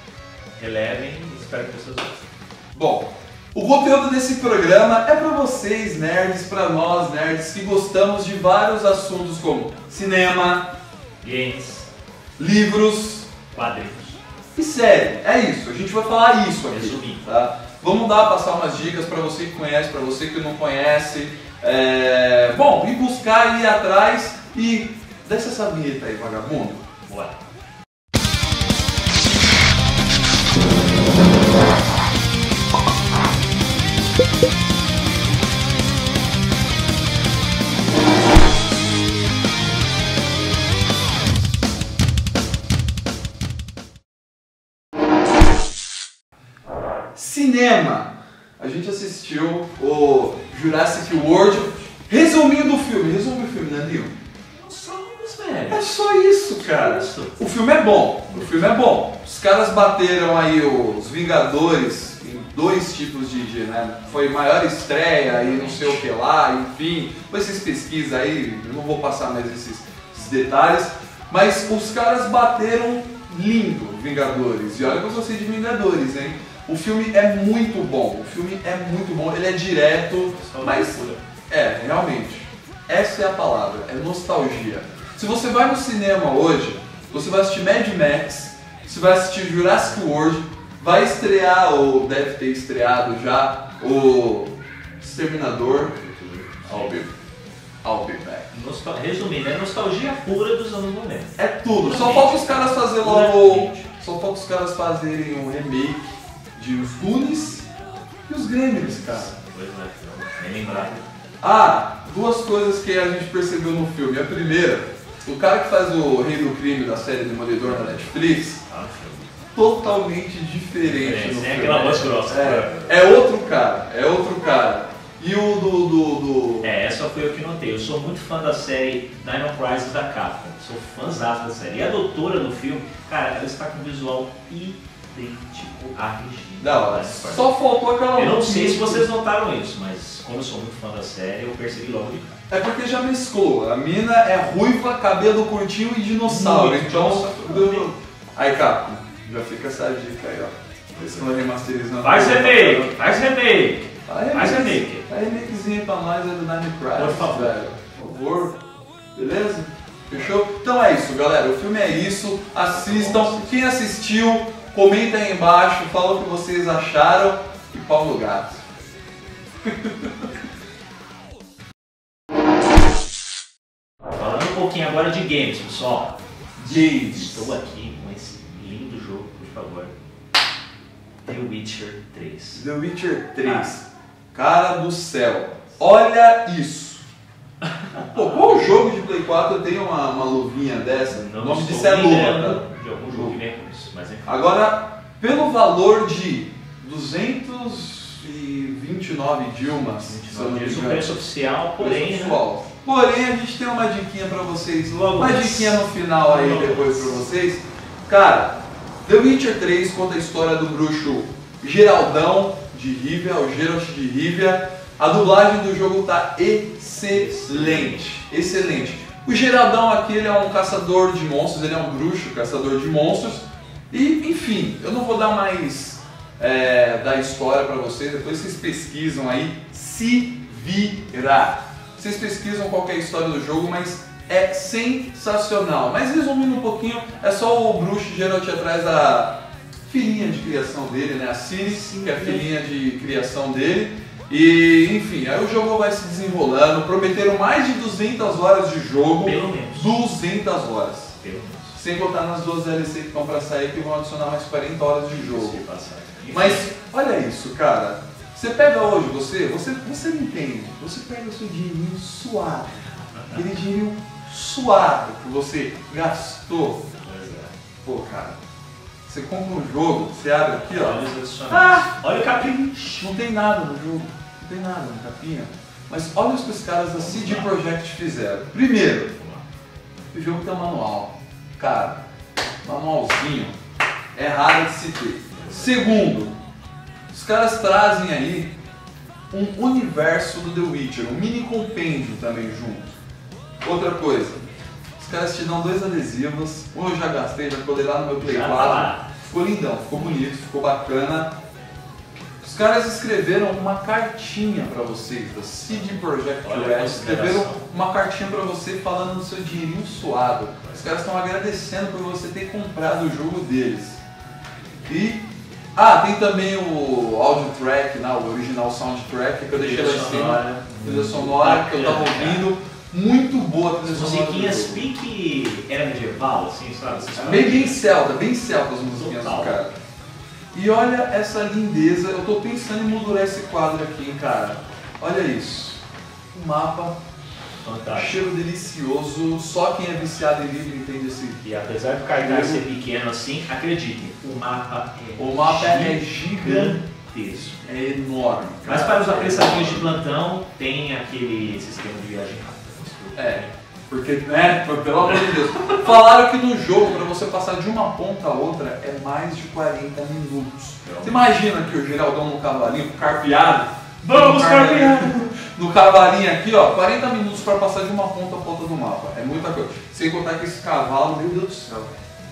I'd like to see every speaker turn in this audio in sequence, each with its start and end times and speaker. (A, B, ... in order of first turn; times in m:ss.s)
0:00.6-0:02.2 A
0:02.7-0:10.7 B
0:11.2-0:11.9 A
0:12.4-0:13.3 B
0:13.5-0:14.2 A
0:14.6-0:26.8 B
0:16.7-0:17.2 A
0:27.1-0:27.4 A
0:47.1-0:54.1 B
0:51.2-0:51.7 A
0:54.7-0:56.0 A
0:55.7-1:35.9 B
0:56.5-0:57.3 A
0:58.3-0:58.8 A
1:05.2-1:06.1 A
1:20.2-1:21.2 A
1:35.6-1:37.1 A
1:36.7-1:37.1 B
1:37.8-1:38.5 B
1:38.5-1:43.9 A
1:41.4-1:47.7 B
1:48.3-1:49.3 B
1:48.7-1:51.0 A
1:51.4-1:58.6 B
1:57.6-1:59.4 A
1:59.5-2:06.7 B
2:00.8-2:03.0 A
2:06.6-2:17.5 A
2:16.6-2:19.1 B
2:18.1-2:22.3 A
2:22.5-2:33.1 B
2:26.2-2:27.9 A
2:30.9-2:31.3 A
2:32.0-2:35.0 A
2:34.0-2:38.6 B
2:36.9-2:37.6 A
2:39.1-2:48.6 B
2:42.7-2:43.6 A
2:49.6-2:50.1 B
2:54.1-2:59.9 A
2:56.6-2:57.6 B
3:01.2-3:02.6 A
3:02.5-3:07.0 B
3:07.6-3:08.8 A
3:08.1-3:13.4 B
3:11.1-3:14.4 A
3:14.2-3:21.2 B
3:20.0-3:22.4 A
3:21.8-4:11.2 B
3:24.9-3:27.2 A
3:37.0-3:38.2 A
4:01.6-4:02.5 A
4:09.2-4:10.0 A
4:11.2-4:11.8 A
4:11.7-4:15.6 B
4:15.1-4:16.7 A
4:16.3-4:26.8 B
4:23.2-4:23.4 A
4:27.0-4:27.5 A
4:27.8-4:28.4 B
4:29.0-4:32.0 B
4:30.6-4:33.1 A
4:32.9-4:39.1 B
4:36.9-4:37.5 A
4:39.1-4:39.4 A
4:40.1-4:42.0 B
4:42.6-4:43.6 B
4:44.1-4:46.3 B
4:45.3-4:46.1 A
4:47.1-4:48.5 B
4:49.3-4:52.9 B
4:53.6-4:54.4 B
4:55.0-5:01.3 B
4:58.2-4:59.0 A
5:02.4-5:14.0 B
5:06.4-5:07.7 A
5:14.8-5:15.2 B
5:15.8-5:24.8 B
5:19.5-5:22.4 A
5:23.8-5:28.0 A
5:27.1-5:29.7 B
5:28.8-5:29.6 A
5:30.5-5:35.8 B
5:36.3-5:37.0 B
5:37.6-5:38.3 A
5:37.9-5:41.4 B
5:41.4-5:47.7 A
5:42.1-5:42.7 B
5:45.2-5:46.8 B
5:47.6-5:50.0 B
5:48.6-5:53.5 A
5:53.1-6:12.0 B
5:55.0-5:55.8 A
6:00.8-6:01.5 A
6:04.0-6:05.2 A